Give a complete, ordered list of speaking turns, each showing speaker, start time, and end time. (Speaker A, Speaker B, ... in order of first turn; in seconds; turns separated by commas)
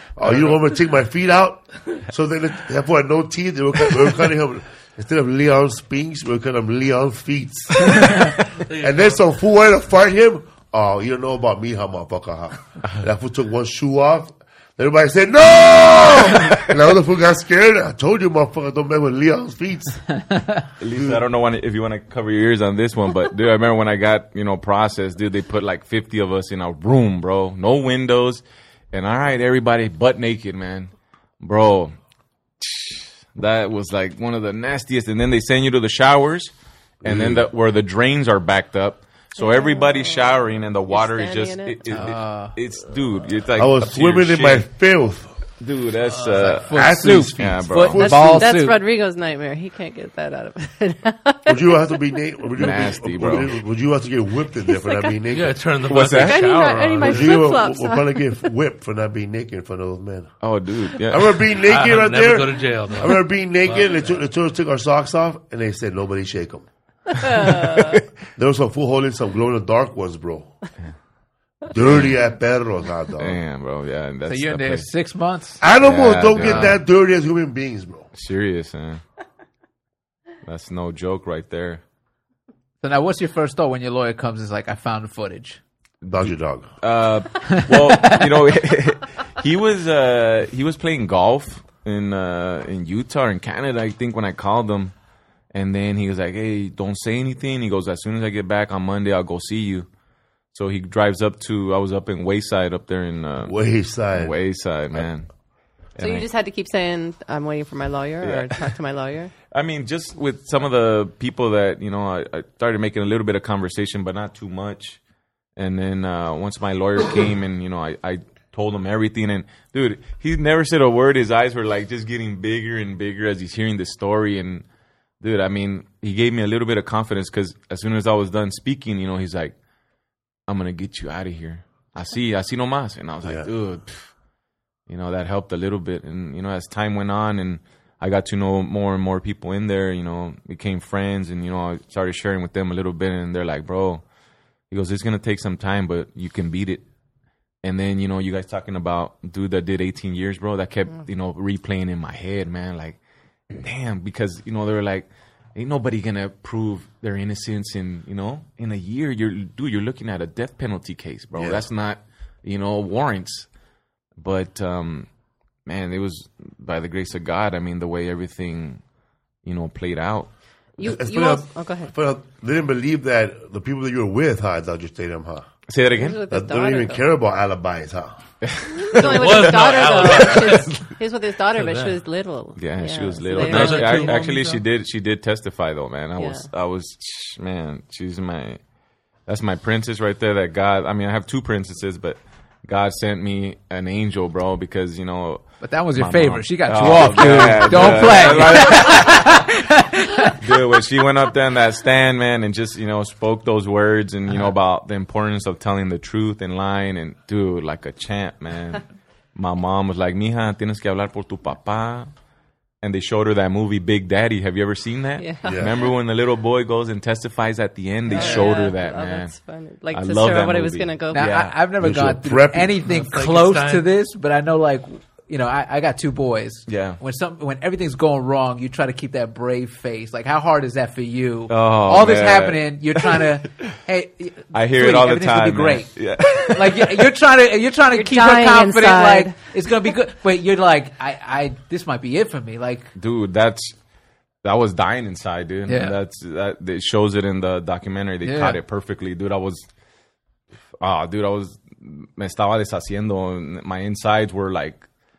Speaker A: 0.2-8.1, Speaker B: 7.8-8.2, Speaker C: 8.7-9.2, Speaker A: 8.8-20.0, Speaker D: 20.3-20.6, Speaker B: 20.8-31.9, Speaker A: 20.9-21.2, Speaker B: 32.6-36.5, Speaker A: 37.0-37.5, Speaker B: 37.0-44.7, Speaker E: 39.4-42.1, Speaker D: 41.9-42.5, Speaker A: 43.6-45.4, Speaker B: 45.6-48.2, Speaker C: 46.1-46.7, Speaker D: 46.4-48.8, Speaker A: 46.7-48.5, Speaker E: 48.0-51.8, Speaker A: 51.5-55.6, Speaker B: 52.6-53.5, Speaker E: 54.7-55.2, Speaker C: 55.3-57.5, Speaker B: 55.9-56.6, Speaker E: 56.2-58.4, Speaker A: 57.0-60.3, Speaker B: 60.4-61.4, Speaker A: 61.0-66.7, Speaker C: 61.7-64.2, Speaker E: 67.1-68.0, Speaker B: 67.4-68.0, Speaker A: 68.3-70.5, Speaker A: 71.7-73.4, Speaker B: 71.8-72.2, Speaker B: 73.2-74.9, Speaker D: 74.3-75.6, Speaker A: 75.6-78.1, Speaker B: 75.8-76.8, Speaker B: 78.1-79.0, Speaker B: 80.5-81.8, Speaker D: 82.8-85.6, Speaker A: 86.0-86.7, Speaker B: 86.1-94.9, Speaker D: 87.5-88.2, Speaker B: 95.5-99.9, Speaker B: 100.5-103.5, Speaker A: 103.4-104.3, Speaker B: 104.1-105.3, Speaker B: 106.0-106.3, Speaker E: 106.0-109.3, Speaker B: 108.2-108.7, Speaker B: 109.5-115.0, Speaker B: 115.6-124.6, Speaker B: 125.2-129.5, Speaker B: 130.5-134.1, Speaker A: 133.2-133.5, Speaker B: 134.9-144.0, Speaker B: 144.7-146.8, Speaker B: 147.6-153.0, Speaker B: 153.5-163.5, Speaker A: 161.4-161.6, Speaker B: 164.2-165.1, Speaker B: 165.7-168.8, Speaker B: 169.4-170.3, Speaker E: 170.8-171.9, Speaker A: 170.8-175.5, Speaker B: 175.7-176.2, Speaker E: 175.9-177.0, Speaker A: 176.3-178.2, Speaker B: 178.4-180.8, Speaker E: 178.9-184.6, Speaker C: 179.0-180.8, Speaker C: 181.6-182.0, Speaker B: 182.6-188.6, Speaker C: 183.3-184.4, Speaker E: 186.2-186.5, Speaker B: 189.3-199.3, Speaker D: 195.6-200.4, Speaker B: 200.4-212.1, Speaker B: 212.8-219.3, Speaker E: 215.2-215.9, Speaker A: 215.4-215.7, Speaker E: 218.1-221.5, Speaker D: 218.1-218.5, Speaker B: 219.9-221.5, Speaker D: 221.1-235.9, Speaker A: 221.8-222.8, Speaker C: 222.8-223.9, Speaker B: 226.7-227.0, Speaker B: 231.5-233.7, Speaker B: 234.5-237.1, Speaker D: 236.5-242.9, Speaker E: 237.9-239.4, Speaker B: 243.0-243.8, Speaker B: 244.4-249.7, Speaker D: 245.7-246.0, Speaker D: 248.2-248.6, Speaker B: 250.8-254.9